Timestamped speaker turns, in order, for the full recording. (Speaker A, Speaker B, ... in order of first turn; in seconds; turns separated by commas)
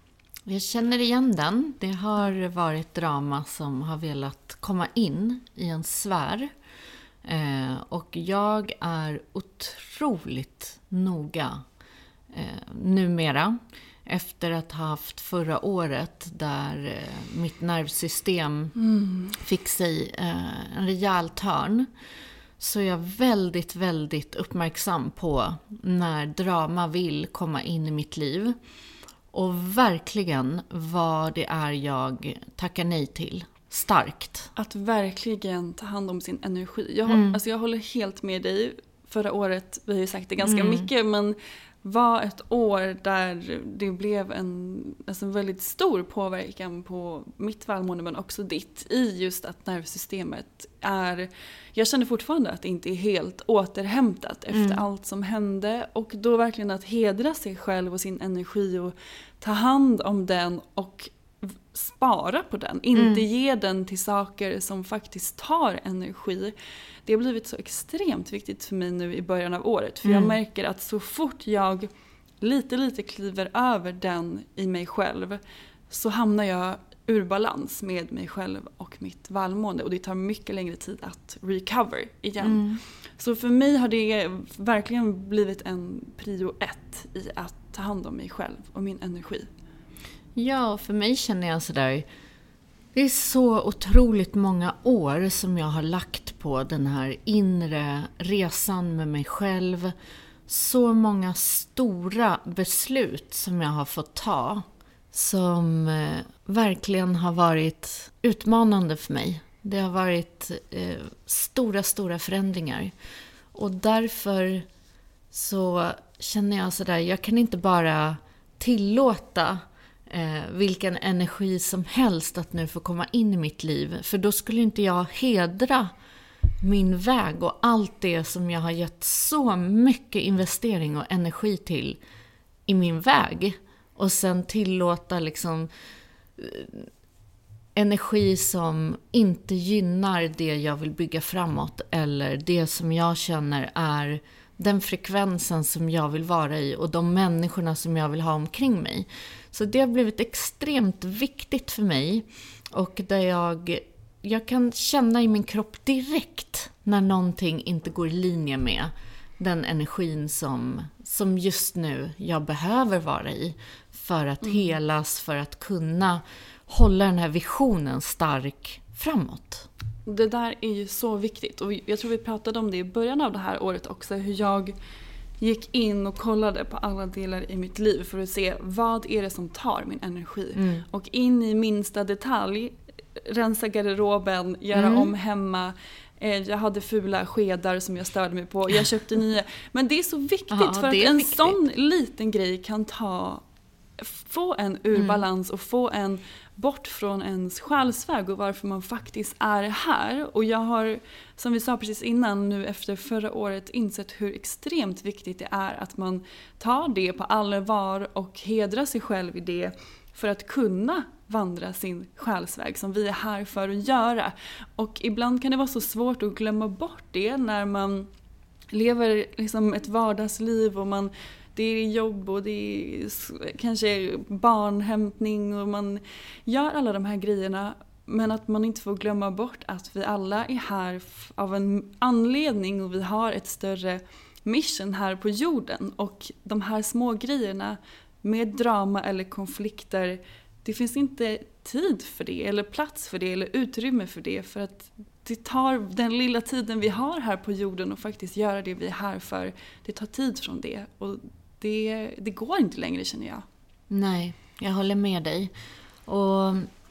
Speaker A: 0.5-6.5, Speaker A: 7.2-11.6, Speaker A: 12.3-18.7, Speaker B: 18.8-19.4, Speaker A: 19.4-21.9, Speaker A: 22.6-28.6, Speaker A: 29.3-34.5, Speaker B: 34.6-66.5, Speaker A: 37.1-37.4, Speaker A: 40.4-40.9, Speaker A: 54.5-54.8, Speaker A: 63.0-63.3, Speaker B: 67.1-71.9, Speaker A: 70.0-70.4, Speaker B: 72.4-82.6, Speaker A: 82.4-82.8, Speaker B: 83.2-89.5, Speaker A: 90.4-92.1, Speaker A: 92.9-99.9, Speaker A: 100.5-112.9, Speaker A: 113.5-114.7, Speaker A: 115.3-125.9, Speaker A: 126.6-132.0, Speaker A: 132.7-135.7, Speaker A: 136.4-136.9, Speaker A: 137.8-169.7, Speaker B: 164.4-164.7, Speaker B: 170.1-174.8, Speaker B: 175.4-193.4, Speaker A: 180.6-180.8, Speaker A: 184.7-185.1, Speaker A: 190.5-191.6, Speaker B: 194.0-218.1, Speaker A: 194.9-195.2, Speaker B: 218.7-253.4, Speaker A: 253.9-255.5, Speaker A: 256.1-256.7